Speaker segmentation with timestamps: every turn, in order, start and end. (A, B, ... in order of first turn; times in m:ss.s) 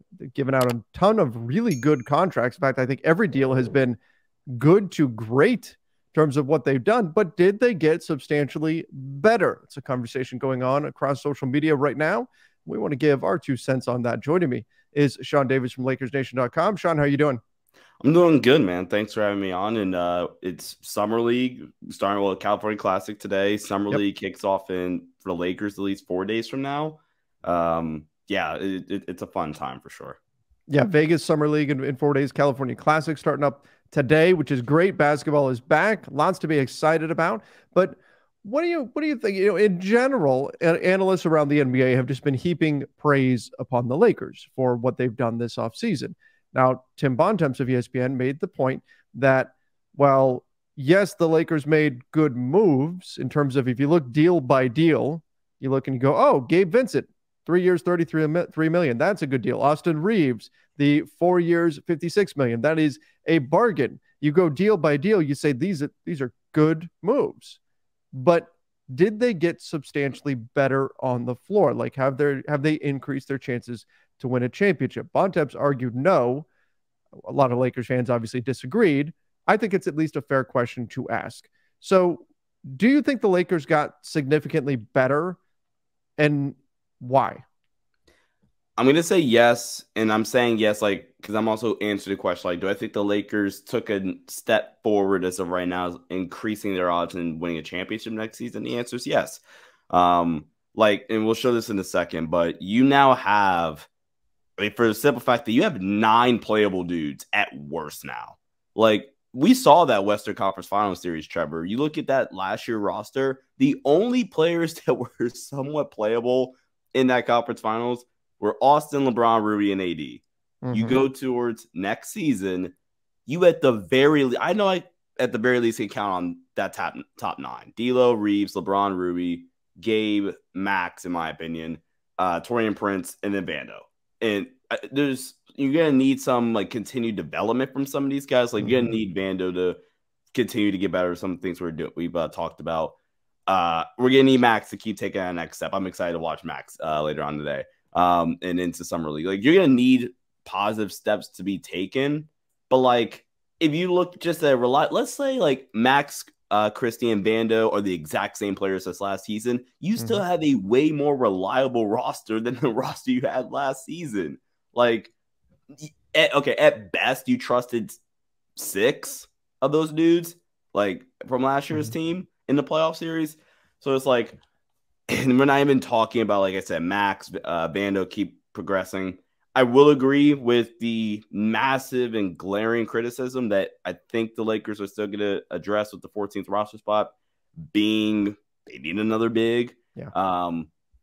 0:00.2-0:04.0 A
0:04.5-0:17.4 A
0:18.0-0:30.2 B
0:30.7-1:07.6 A
1:08.1-1:16.5 A
1:17.2-1:25.4 A
1:26.2-1:27.4 A
1:28.8-1:43.9 B
1:44.6-2:02.7 B
2:00.6-2:01.0 A
2:03.2-2:19.8 B
2:18.6-2:19.0 A
2:20.3-2:45.1 B
2:45.8-2:48.0 B
2:48.6-2:54.4 B
2:55.1-3:07.2 B
3:07.7-3:10.7 B